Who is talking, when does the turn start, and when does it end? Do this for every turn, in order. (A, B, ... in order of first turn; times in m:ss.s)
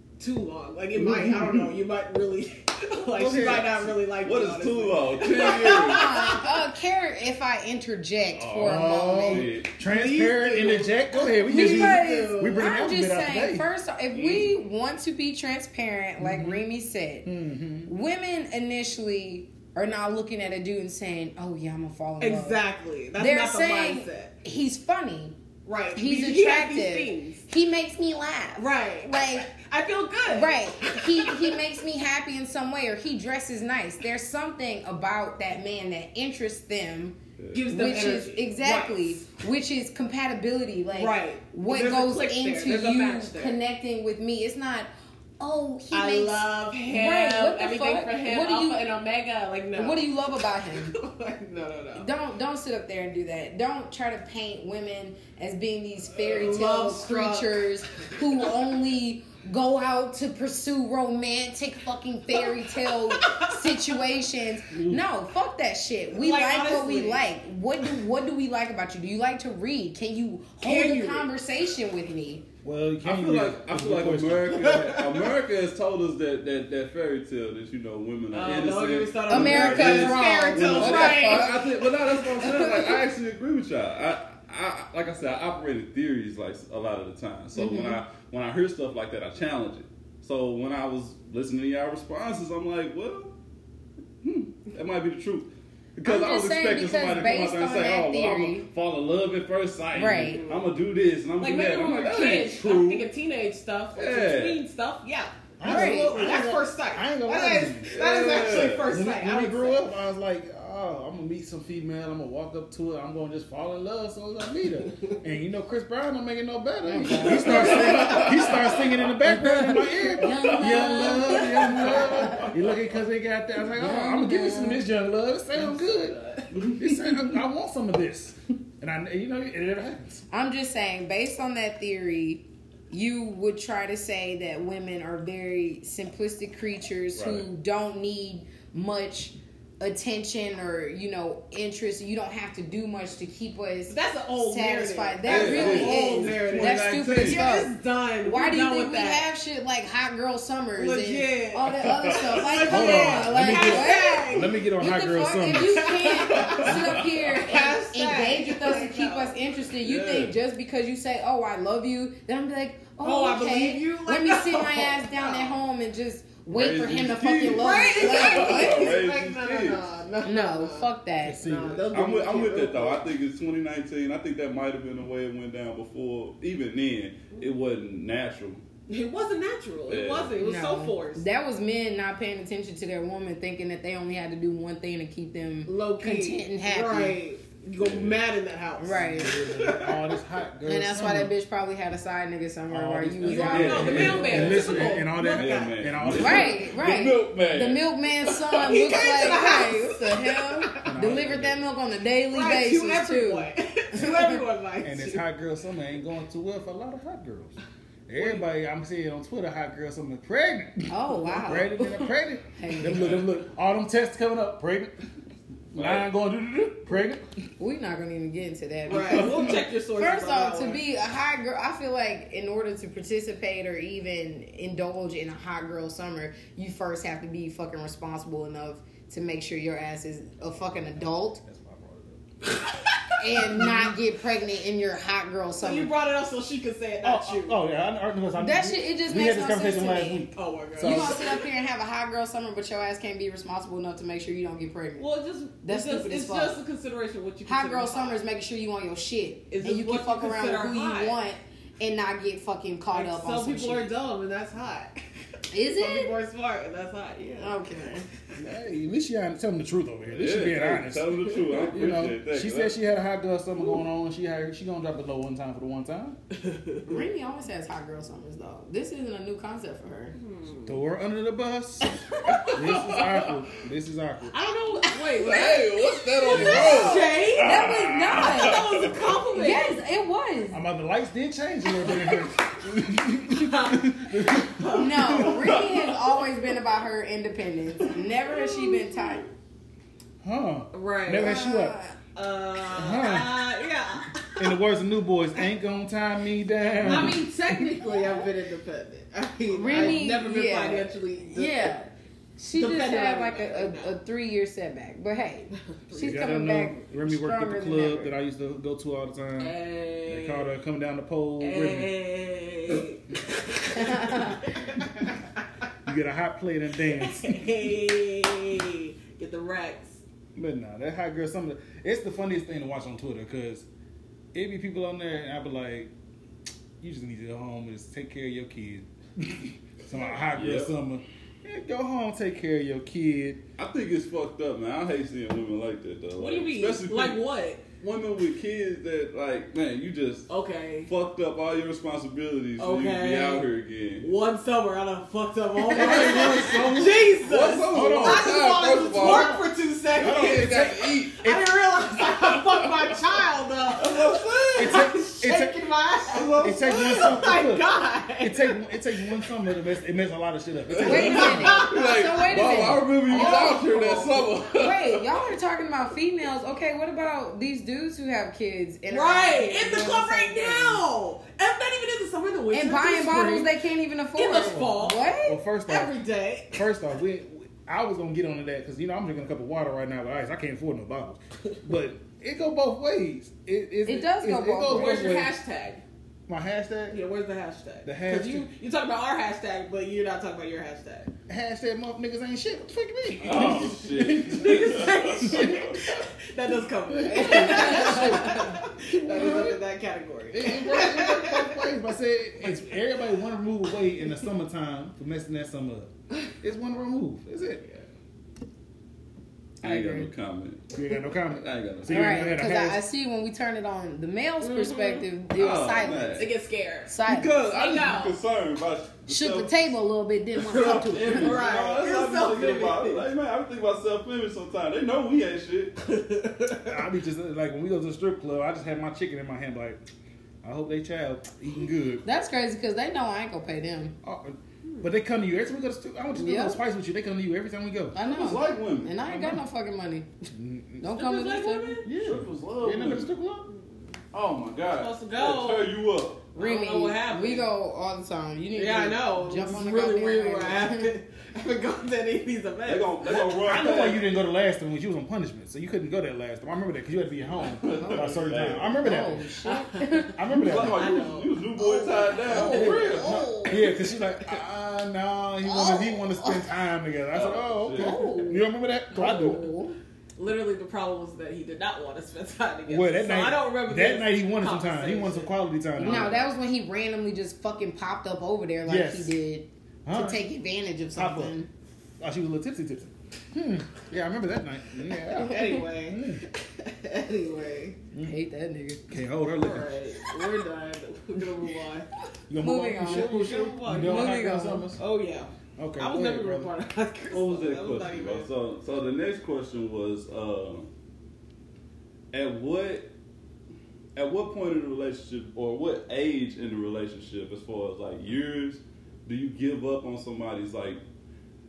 0:00.2-0:06.6 A
0:01.0-0:01.7 B
0:03.1-0:04.0 B
0:04.2-0:06.1 C
0:05.7-0:09.5 D
0:08.3-0:09.7 C
0:08.6-0:13.7 B
0:09.8-0:12.7 A
0:11.5-0:17.3 D
0:14.1-0:14.5 C
0:16.2-0:16.6 B
0:17.2-0:17.9 B
0:17.9-0:22.6 D
0:22.2-0:24.4 A
0:23.2-0:25.4 D
0:25.6-0:27.5 A
0:25.9-0:29.5 D
0:28.6-0:31.6 A
0:30.3-0:48.8 D
0:37.4-0:37.6 C
0:37.5-0:39.2 A
0:40.9-0:43.6 A
0:45.9-0:50.1 A
0:49.8-0:51.0 D
0:50.7-0:52.1 A
0:52.0-1:12.4 D
0:56.2-0:58.4 A
1:02.3-1:03.9 A
1:04.7-1:05.0 B
1:06.1-1:07.3 A
1:10.6-1:11.3 A
1:12.6-1:15.1 B
1:13.0-1:33.3 C
1:14.7-1:15.3 A
1:18.3-1:21.8 A
1:19.3-1:21.7 D
1:22.4-1:23.0 D
1:27.6-1:28.0 D
1:34.2-1:43.1 C
1:36.0-1:38.7 D
1:39.9-1:40.4 D
1:40.3-1:40.8 A
1:41.4-1:49.9 A
1:43.9-1:44.6 C
1:45.6-1:47.9 B
1:45.6-1:46.2 D
1:47.9-1:48.9 C
1:48.9-2:10.2 B
1:56.8-1:58.3 D
1:57.4-1:58.2 A
1:57.5-1:58.6 C
1:59.3-2:02.5 D
2:00.4-2:02.8 C
2:03.8-2:04.8 D
2:05.6-2:06.7 A
2:10.3-2:49.0 D
2:17.2-2:17.5 C
2:23.9-2:29.3 A
2:25.3-2:27.5 C
2:30.8-2:34.6 A
2:32.7-2:35.9 B
2:35.6-2:39.4 A
2:36.3-2:37.1 C
2:39.8-2:40.4 C
2:43.0-2:45.6 A
2:46.5-2:49.9 C
2:47.5-2:53.1 A
2:50.2-2:51.4 D
2:51.2-2:51.9 B
2:51.9-2:58.6 C
2:58.9-3:01.2 A
2:59.9-3:00.4 C
3:00.4-3:07.2 D
3:05.7-3:10.2 A
3:07.8-3:08.2 C
3:08.8-3:09.4 D
3:08.8-3:11.3 B
3:10.7-3:14.6 D
3:12.7-3:16.7 B
3:13.2-3:16.0 A
3:13.5-3:17.9 C
3:16.1-3:24.4 D
3:18.3-3:20.9 A
3:20.8-3:21.6 B
3:22.3-3:25.2 A
3:24.8-3:27.6 B
3:28.1-3:35.0 B
3:28.2-3:28.5 A
3:30.9-3:33.2 D
3:33.0-3:33.2 C
3:35.7-3:37.3 B
3:35.8-3:36.1 C
3:37.6-3:51.4 D
3:38.9-3:40.8 A
3:50.7-3:52.2 B
3:53.2-3:55.9 D
3:53.5-3:53.9 B
3:55.6-3:57.6 A
3:57.0-4:01.2 B
3:58.4-4:00.3 D
4:00.3-4:01.4 A
4:00.8-4:05.1 D
4:05.0-4:08.2 A
4:05.6-4:06.6 D
4:07.5-4:13.9 D
4:09.5-4:11.2 A
4:12.9-4:18.0 A
4:15.5-4:16.2 D
4:17.4-4:18.0 D
4:18.4-4:26.2 B
4:20.1-4:22.8 C
4:26.4-4:27.0 A
4:26.9-4:30.2 D
4:30.2-4:30.8 A
4:30.7-4:32.0 B
4:31.9-4:32.7 A
4:32.5-4:34.3 B
4:32.6-4:33.3 C
4:34.3-4:39.8 A
4:35.1-4:39.0 C
4:36.3-4:36.7 B
4:36.5-4:38.7 D
4:39.3-4:40.6 D
4:40.5-4:45.5 B
4:41.7-4:42.5 A
4:43.3-4:45.8 A
4:44.8-4:49.2 D
4:48.3-4:49.2 A
4:50.2-4:51.8 B
4:50.7-4:51.4 A
4:51.2-4:52.0 D
4:52.1-4:54.6 A
4:52.7-4:53.5 B
4:54.4-4:57.9 B
4:56.8-4:57.2 C
4:56.8-5:01.7 A
4:59.5-5:08.1 D
4:59.7-5:00.0 B
5:02.6-5:03.9 A
5:05.9-5:06.4 A
5:06.0-5:11.9 B
5:09.4-5:10.5 A
5:11.4-5:15.2 A
5:13.8-5:14.5 D
5:14.8-5:15.0 B
5:15.9-5:17.7 B
5:17.0-5:20.0 A
5:20.4-5:23.7 B
5:24.3-5:25.9 B
5:26.8-5:33.4 B
5:30.3-5:30.7 C
5:33.6-5:37.2 C
5:36.2-5:37.6 A
5:37.8-5:40.3 C
5:40.3-5:40.9 A
5:40.9-5:44.1 C
5:42.6-5:43.5 A
5:44.0-5:58.6 A
5:45.7-5:49.4 C
5:45.7-5:47.0 B
5:45.8-5:46.4 D
5:47.7-5:49.4 B
5:50.0-5:51.3 C
5:50.0-5:51.4 B
5:52.0-5:53.1 C
5:53.8-5:54.4 C
5:54.6-5:55.6 B
5:56.4-6:01.7 B
6:00.7-6:05.3 C
6:00.8-6:10.8 D
6:00.9-6:02.1 A
6:03.1-6:04.3 A
6:08.9-6:13.5 A
6:12.5-6:15.4 D
6:14.2-6:15.1 A
6:14.4-6:16.0 B
6:15.7-6:16.6 A
6:16.5-6:25.4 B
6:23.9-6:25.1 D
6:24.7-6:25.8 A
6:26.3-6:27.0 B
6:26.9-6:31.1 A
6:27.8-6:28.5 B
6:31.3-6:35.6 B
6:33.2-6:36.0 C
6:33.4-6:41.7 A
6:36.9-6:39.6 B
6:37.3-6:38.3 D
6:40.3-6:47.6 B
6:47.6-6:47.8 A
6:49.6-6:50.1 D
6:49.6-6:52.4 C
6:50.7-6:52.8 B
6:51.9-6:56.3 D
6:54.4-6:55.1 A
6:55.4-6:56.3 C
6:56.2-6:58.2 A
6:56.9-6:57.4 D
6:57.0-6:59.7 C
6:59.1-7:01.4 D
7:00.4-7:05.8 C
7:00.5-7:03.0 A
7:05.8-7:06.8 A
7:06.7-7:09.8 B
7:10.4-7:12.0 B
7:12.0-7:14.0 D
7:14.0-7:18.0 B
7:16.2-7:16.6 D
7:17.9-7:20.1 D
7:18.0-7:19.3 C
7:19.1-7:19.4 B
7:20.3-7:20.9 B
7:20.8-7:21.8 D
7:20.9-7:21.9 A
7:21.8-7:23.5 B
7:22.0-7:23.1 C
7:24.1-7:26.3 C
7:24.8-7:25.7 A
7:26.3-7:27.5 A
7:26.4-7:30.9 D
7:28.6-7:33.7 A
7:32.7-7:34.0 C
7:33.4-7:39.2 B
7:37.4-7:38.9 C
7:37.7-7:38.1 D
7:38.8-7:40.2 D
7:39.4-7:44.4 A
7:40.2-7:40.9 B
7:40.3-7:43.3 C
7:41.6-7:43.8 D
7:42.3-7:49.5 B
7:45.4-7:46.4 D
7:47.1-7:48.2 C
7:47.8-7:48.4 D
7:49.0-7:49.8 D
7:50.2-7:55.3 A
7:52.7-7:56.3 B
7:55.8-8:01.5 D
7:58.6-7:59.2 B
7:59.8-8:00.2 B
8:01.0-8:01.4 B
8:02.0-8:06.2 B
8:05.2-8:07.8 A
8:08.0-8:08.8 D
8:08.9-8:09.7 B
8:09.4-8:11.9 A
8:12.3-8:14.8 B
8:12.4-8:14.7 D
8:12.8-8:18.3 A
8:15.6-8:16.5 B
8:17.1-8:20.7 C
8:22.1-8:22.9 C
8:24.0-8:30.8 C